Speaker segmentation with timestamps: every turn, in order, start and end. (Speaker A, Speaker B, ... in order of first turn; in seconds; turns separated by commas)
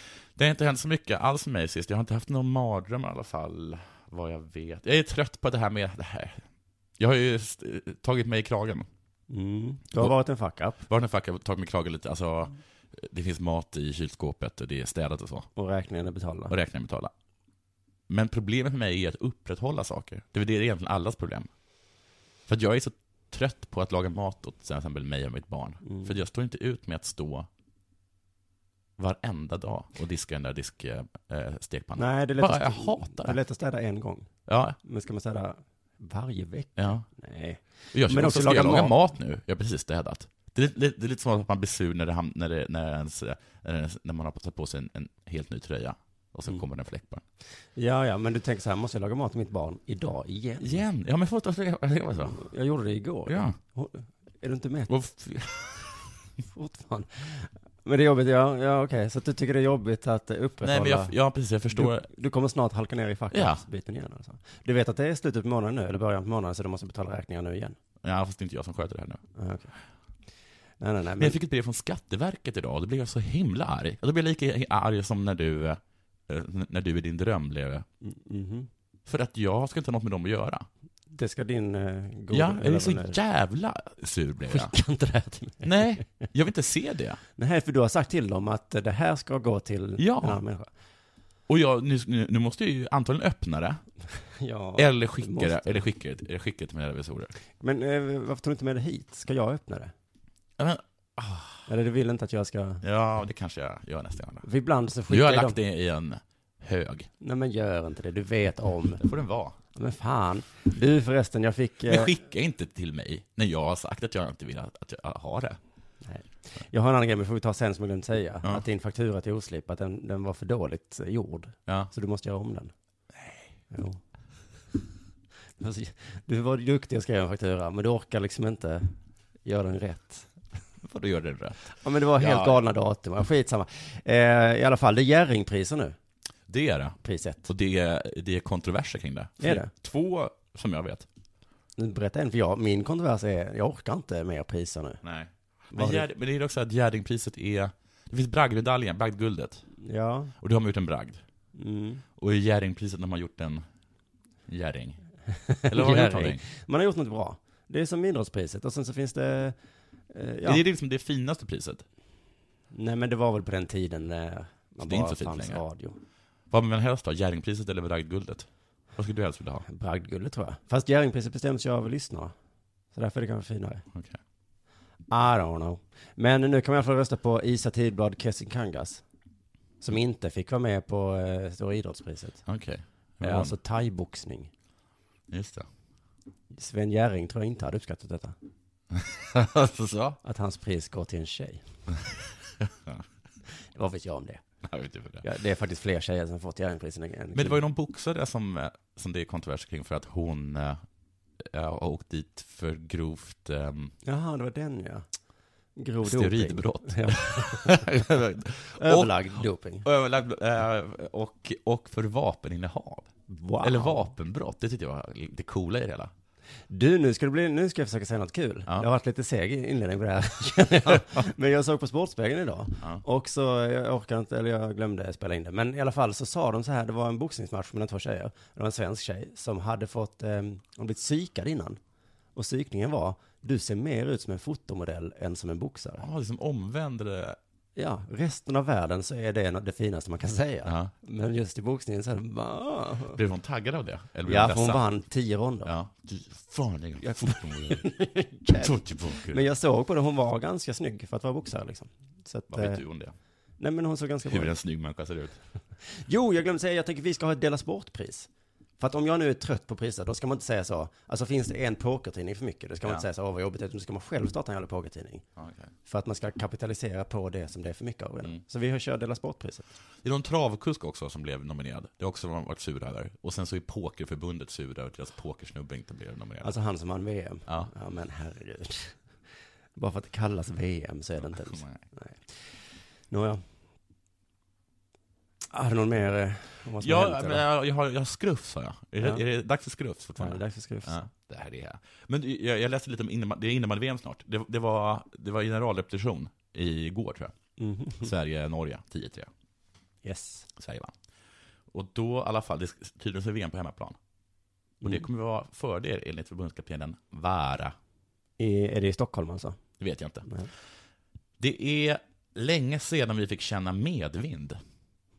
Speaker A: 0.4-6.4, Speaker A: 7.0-8.9, Speaker B: 9.3-10.8, Speaker A: 10.9-15.5, Speaker B: 15.6-16.5, Speaker A: 16.5-17.1, Speaker A: 18.1-21.5, Speaker A: 22.5-27.5, Speaker B: 25.8-26.1, Speaker A: 29.0-33.4, Speaker B: 32.0-34.3, Speaker A: 34.5-34.8, Speaker B: 34.8-39.0, Speaker A: 36.8-37.0, Speaker A: 37.9-47.2, Speaker B: 47.8-50.8, Speaker A: 50.6-52.4, Speaker B: 52.3-55.0, Speaker A: 53.3-53.5, Speaker A: 54.9-56.0, Speaker B: 56.5-61.1, Speaker A: 60.6-62.1, Speaker B: 61.7-67.8, Speaker A: 63.3-63.6, Speaker A: 68.0-69.2, Speaker B: 69.3-69.7, Speaker B: 70.8-71.4, Speaker A: 71.2-77.8, Speaker B: 78.0-78.7, Speaker A: 79.0-80.7, Speaker B: 81.1-83.2, Speaker A: 82.3-84.7, Speaker B: 84.5-86.3, Speaker A: 85.6-87.2, Speaker B: 87.4-90.7, Speaker A: 90.0-90.4, Speaker A: 91.5-93.8, Speaker B: 94.4-95.8, Speaker A: 94.8-97.3, Speaker B: 97.6-99.9, Speaker A: 100.6-101.7, Speaker B: 101.7-102.8, Speaker A: 102.8-104.5, Speaker B: 104.4-105.6, Speaker A: 105.1-107.1, Speaker B: 107.2-109.0, Speaker A: 109.0-109.5, Speaker B: 109.7-112.1, Speaker A: 111.9-115.6, Speaker B: 116.0-122.7, Speaker A: 123.1-123.5, Speaker B: 123.7-124.0, Speaker B: 125.6-128.9, Speaker B: 129.4-130.3, Speaker A: 130.8-132.6, Speaker B: 131.8-135.9, Speaker A: 136.5-141.1, Speaker B: 137.0-137.5, Speaker B: 139.4-139.7, Speaker B: 141.8-145.0, Speaker A: 145.0-149.6, Speaker B: 145.7-146.1, Speaker B: 149.8-150.3, Speaker A: 150.4-151.2, Speaker B: 151.5-152.0, Speaker A: 152.2-153.6, Speaker A: 154.5-155.0, Speaker B: 155.5-159.5, Speaker A: 155.7-156.4, Speaker B: 160.1-160.6, Speaker A: 160.4-161.8, Speaker B: 162.7-166.0, Speaker A: 164.8-165.6, Speaker A: 166.5-169.6, Speaker B: 169.7-172.3, Speaker B: 172.9-173.8, Speaker B: 175.1-179.0, Speaker B: 179.8-182.4, Speaker A: 182.5-183.6, Speaker B: 183.2-184.5, Speaker A: 185.3-185.7, Speaker B: 186.5-188.3, Speaker A: 188.9-190.2, Speaker B: 190.2-191.6, Speaker A: 192.6-193.0, Speaker B: 193.7-194.4, Speaker A: 194.6-195.2, Speaker B: 195.2-197.6, Speaker A: 197.3-200.8, Speaker A: 201.4-203.9, Speaker B: 204.0-205.0, Speaker B: 205.8-208.2, Speaker A: 206.0-209.2, Speaker B: 208.7-209.8, Speaker A: 209.8-213.1, Speaker B: 213.3-214.1, Speaker A: 213.6-216.1, Speaker B: 216.7-231.8, Speaker B: 232.3-236.1, Speaker A: 236.0-237.4, Speaker B: 237.8-243.2, Speaker A: 240.6-240.9, Speaker A: 243.1-244.8, Speaker B: 244.2-245.7, Speaker A: 245.6-247.8, Speaker B: 247.0-252.8, Speaker A: 248.5-249.4, Speaker A: 252.5-253.1, Speaker B: 253.6-254.5, Speaker A: 254.2-255.4, Speaker B: 255.9-258.3, Speaker B: 258.8-265.2, Speaker A: 265.4-265.7, Speaker B: 265.9-269.7, Speaker A: 270.0-276.5, Speaker B: 276.4-279.0, Speaker B: 279.8-282.4, Speaker A: 281.4-281.8, Speaker B: 283.1-283.4, Speaker B: 285.5-287.4, Speaker A: 286.8-297.3, Speaker B: 290.2-291.0, Speaker B: 297.6-298.1, Speaker A: 298.0-299.3, Speaker B: 300.0-300.5, Speaker A: 300.6-300.9, Speaker A: 301.7-303.9, Speaker A: 304.8-307.8, Speaker B: 308.4-309.6, Speaker A: 309.8-310.2, Speaker A: 311.4-314.6